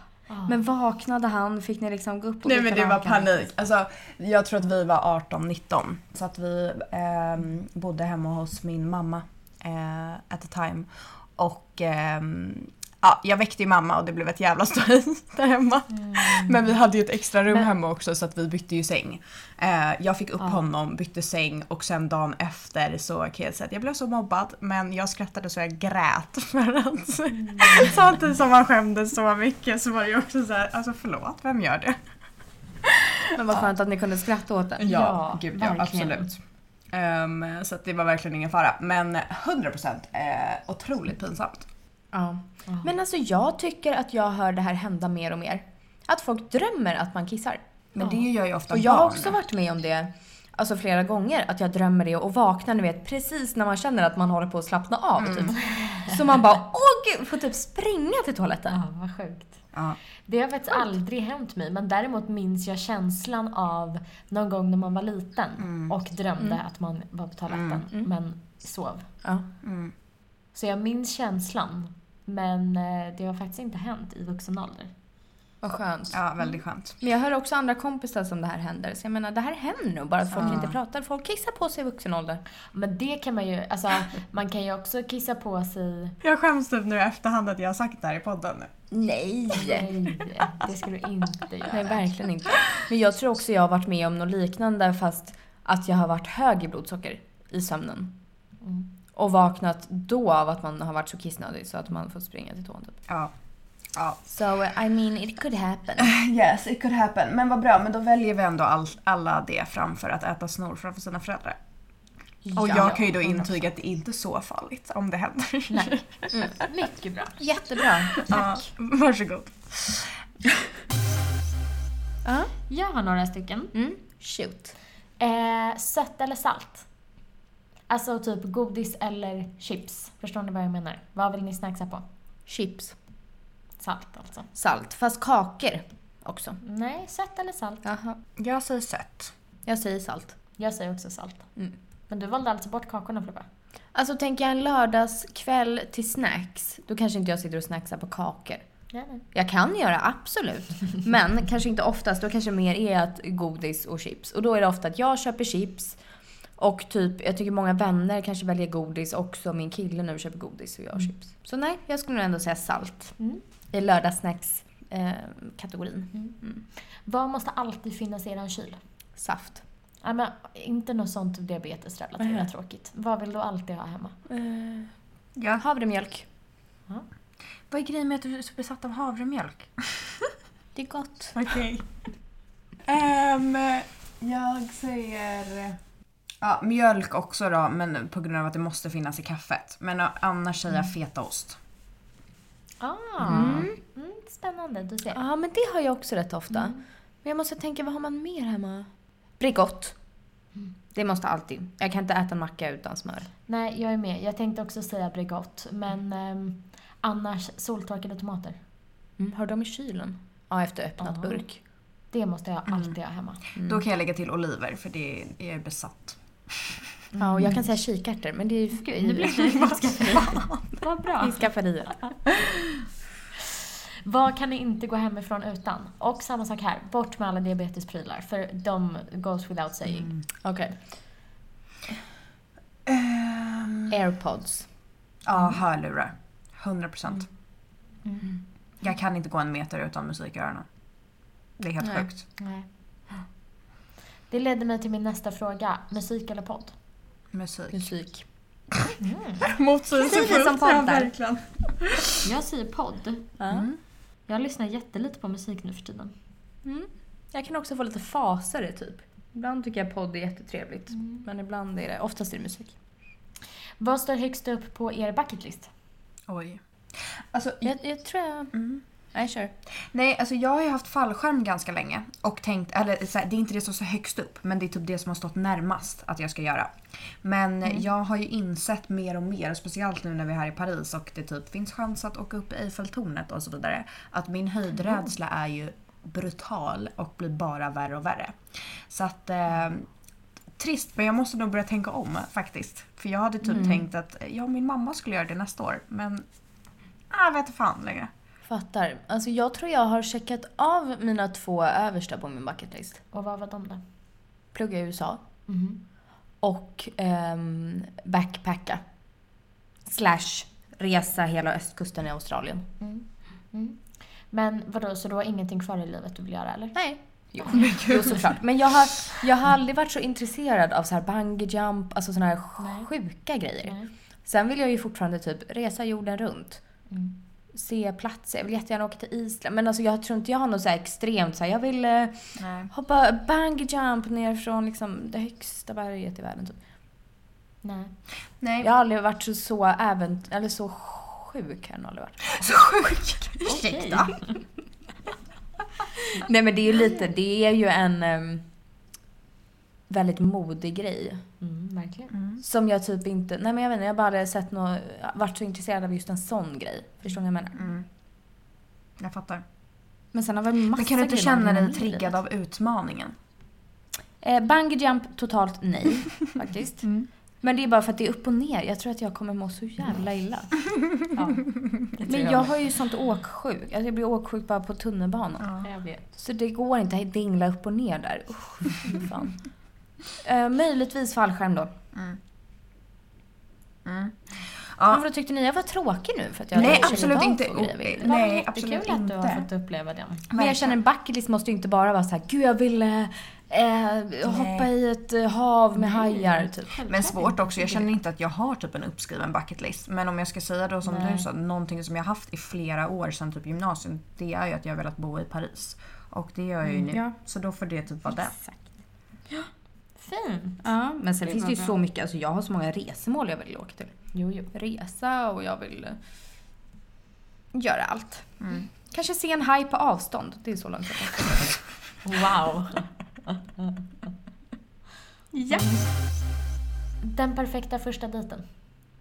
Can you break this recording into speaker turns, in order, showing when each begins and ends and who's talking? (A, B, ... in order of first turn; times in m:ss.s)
0:00.3-0:00.6 A
0:00.5-0:03.4 B
0:02.4-0:32.0 C
0:16.0-0:16.6 A
0:27.4-0:28.0 A
0:32.8-0:33.6 C
0:33.3-0:35.0 B
0:34.8-0:36.4 C
0:34.9-0:36.3 A
0:36.9-0:41.7 C
0:42.1-0:47.6 B
0:47.9-0:49.4 C
0:48.0-0:48.3 A
0:48.7-0:58.8 B
0:55.2-0:55.6 C
0:55.6-0:56.1 A
0:58.7-0:59.6 A
1:00.3-1:09.1 A
1:05.6-1:05.9 C
1:07.5-1:07.8 C
1:09.6-1:09.9 C
1:10.5-1:14.9 A
1:15.6-1:16.2 B
1:16.1-1:17.0 C
1:17.0-1:22.4 B
1:20.3-1:20.8 C
1:22.7-1:26.2 A
1:26.2-1:28.7 C
1:28.9-1:29.9 B
1:29.5-1:32.1 A
1:31.7-1:38.2 B
1:38.6-1:38.9 A
1:39.2-1:43.0 B
1:43.1-1:43.3 C
1:43.9-1:44.2 C
1:44.3-1:46.2 B
1:46.0-1:51.6 C
1:52.5-1:53.0 B
1:52.6-1:56.5 C
1:52.6-1:53.5 A
1:55.7-1:56.0 A
1:56.3-1:56.6 B
1:56.5-1:57.4 A
1:57.4-1:58.7 B
1:58.2-2:00.2 C
2:02.2-2:02.5 B
2:02.7-2:03.7 A
2:03.7-2:04.8 B
2:05.2-2:06.9 A
2:07.9-2:12.0 A
2:12.5-2:13.0 B
2:13.8-2:14.5 A
2:14.6-2:16.6 B
2:16.6-2:17.8 A
2:17.8-2:18.2 B
2:18.4-2:19.3 C
2:19.7-2:20.4 B
2:20.6-2:21.5 A
2:22.1-2:23.5 A
2:23.9-2:28.7 B
2:28.9-2:29.2 A
2:29.3-2:36.0 B
2:36.6-2:43.2 B
2:43.7-2:46.6 B
2:47.1-2:48.8 A
2:49.2-2:49.6 B
2:50.0-2:54.2 A
2:52.2-2:52.5 B
2:54.3-2:54.9 B
2:55.4-2:55.6 C
2:55.6-2:56.3 B
2:57.7-3:00.3 C
3:00.8-3:01.4 B
3:01.3-3:01.9 C
3:02.8-3:05.8 C
3:06.4-3:11.6 C
3:12.8-3:15.2 A
3:13.2-3:13.7 C
3:13.3-3:13.8 B
3:15.1-3:20.0 B
3:16.5-3:16.8 A
3:21.0-3:23.3 B
3:23.5-3:28.6 A
3:29.2-3:31.6 B
3:31.0-3:31.4 A
3:32.1-3:33.4 A
3:32.7-3:33.0 C
3:33.6-3:33.8 B
3:33.6-3:36.8 C
3:37.2-3:37.6 A
3:37.2-3:40.4 B
3:38.8-3:42.1 A
3:39.3-3:40.6 C
3:41.2-3:42.0 B
3:44.0-3:50.2 A
3:50.4-3:50.8 B
3:52.9-3:53.9 C
3:53.9-3:54.7 B
3:55.2-3:57.3 C
3:58.8-4:00.7 C
4:01.6-4:02.2 C
4:01.8-4:02.1 B
4:02.4-4:02.7 A
4:04.3-4:06.8 A
4:07.3-4:07.9 C
4:07.7-4:08.2 B
4:09.0-4:09.5 A
4:09.4-4:12.3 C
4:10.0-4:11.1 B
4:12.2-4:13.4 A
4:13.4-4:13.7 B
4:13.5-4:13.8 C
4:14.3-4:16.1 A
4:16.6-4:22.8 B
4:21.0-4:21.2 A
4:23.8-4:25.7 A
4:26.3-4:27.7 C
4:27.6-4:28.6 B
4:28.5-4:28.8 C
4:29.1-4:29.5 B
4:29.9-4:48.4 C
4:48.9-4:49.9 C
4:50.6-4:56.2 C
4:53.5-4:53.8 B
4:57.1-4:58.1 C
4:58.4-5:03.0 B
5:03.1-5:03.8 A
5:04.5-5:05.2 B
5:05.5-5:05.8 A
5:06.4-5:08.8 B
5:09.9-5:12.7 B
5:12.8-5:16.8 A
5:16.8-5:26.6 B
5:17.5-5:18.4 C
5:22.6-5:22.9 A
5:23.6-5:23.9 A
5:26.9-5:27.2 A
5:27.5-5:36.6 B
5:32.4-5:32.7 C
5:37.6-5:38.0 A
5:38.4-5:38.7 C
5:38.6-5:42.4 B
5:42.4-5:44.1 C
5:43.4-5:44.4 A
5:43.7-5:44.1 B
5:46.1-5:48.4 B
5:49.9-5:51.2 B
5:51.4-5:52.1 A
5:52.1-5:52.4 C
5:52.4-5:57.6 B
5:57.6-5:57.8 C
5:59.0-5:59.4 C
6:00.1-6:02.2 B
6:00.8-6:03.2 C
6:04.2-6:06.9 B
6:06.8-6:07.1 C
6:07.4-6:10.5 B
6:11.2-6:12.5 A
6:12.1-6:15.6 B
6:15.4-6:15.7 C
6:15.6-6:16.0 A
6:16.2-6:19.4 B
6:20.2-6:21.7 B
6:23.8-6:25.0 C
6:24.9-6:28.1 B
6:26.5-6:27.2 A
6:26.6-6:29.5 C
6:28.0-6:30.3 A
6:30.3-6:36.8 B
6:30.3-6:30.7 C
6:34.2-6:34.7 C
6:35.8-6:37.8 A
6:36.9-6:48.4 C
6:46.9-6:47.2 B
6:50.0-6:50.6 A
6:50.6-6:54.0 B
6:51.2-6:51.8 A
6:54.1-6:54.5 A
6:54.5-6:56.0 B
6:57.5-6:58.4 B
6:58.4-6:58.7 C
6:58.9-7:01.5 B
7:02.0-7:03.8 A
7:05.3-7:05.8 B
7:05.5-7:05.8 A
7:07.0-7:08.4 A